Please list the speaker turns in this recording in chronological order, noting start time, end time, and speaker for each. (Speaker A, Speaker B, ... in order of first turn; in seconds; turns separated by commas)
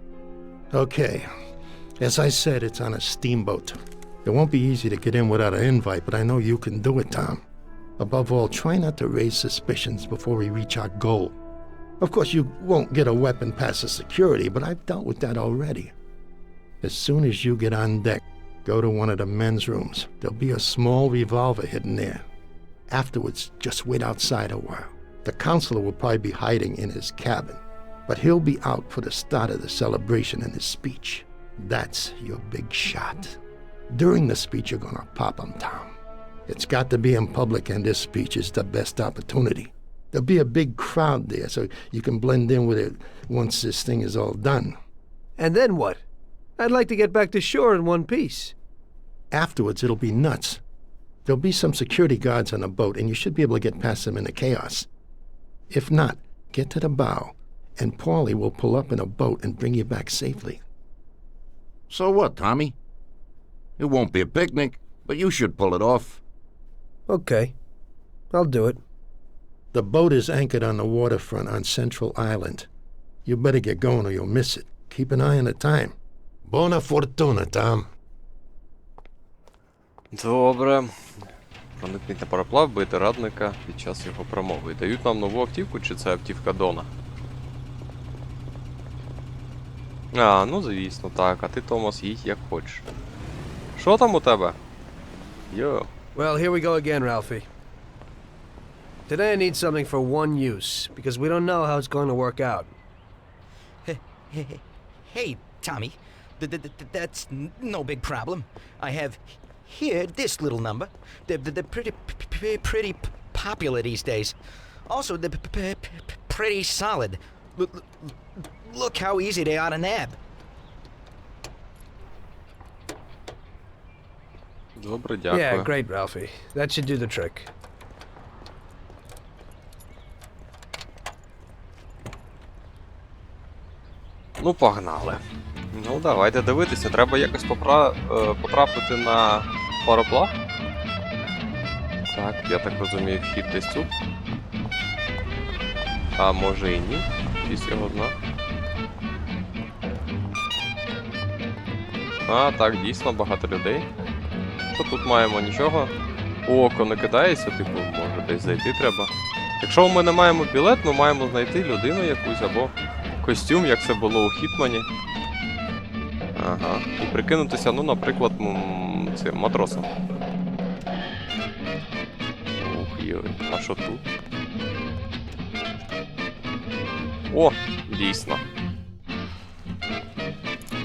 Speaker A: 0.7-1.3, Speaker A: 2.0-7.4, Speaker A: 8.0-11.3, Speaker A: 12.0-15.9, Speaker A: 16.8-22.2, Speaker A: 22.9-33.4, Speaker A: 33.9-35.9, Speaker A: 36.5-44.8, Speaker B: 45.4-46.0, Speaker B: 46.6-48.5, Speaker A: 49.3-50.6, Speaker A: 51.2-54.9, Speaker A: 55.7-60.6, Speaker C: 61.9-62.8, Speaker C: 63.8-66.2, Speaker B: 67.1-67.5, Speaker B: 68.3-68.8, Speaker A: 69.7-72.7, Speaker A: 73.2-77.9, Speaker D: 80.1-81.2, Speaker D: 81.8-86.9, Speaker D: 90.1-92.8, Speaker D: 93.8-94.6, Speaker D: 95.5-95.9, Speaker B: 96.1-97.5, Speaker B: 99.1-102.7, Speaker E: 103.8-114.3, Speaker E: 114.9-120.2, Speaker D: 124.8-125.7, Speaker B: 125.3-127.5, Speaker D: 134.4-140.3, Speaker D: 142.1-143.9, Speaker D: 146.2-148.1, Speaker D: 152.2-153.8, Speaker D: 154.7-155.9, Speaker D: 156.4-164.9, Speaker D: 166.3-169.9, Speaker D: 172.6-174.0, Speaker D: 177.3-178.4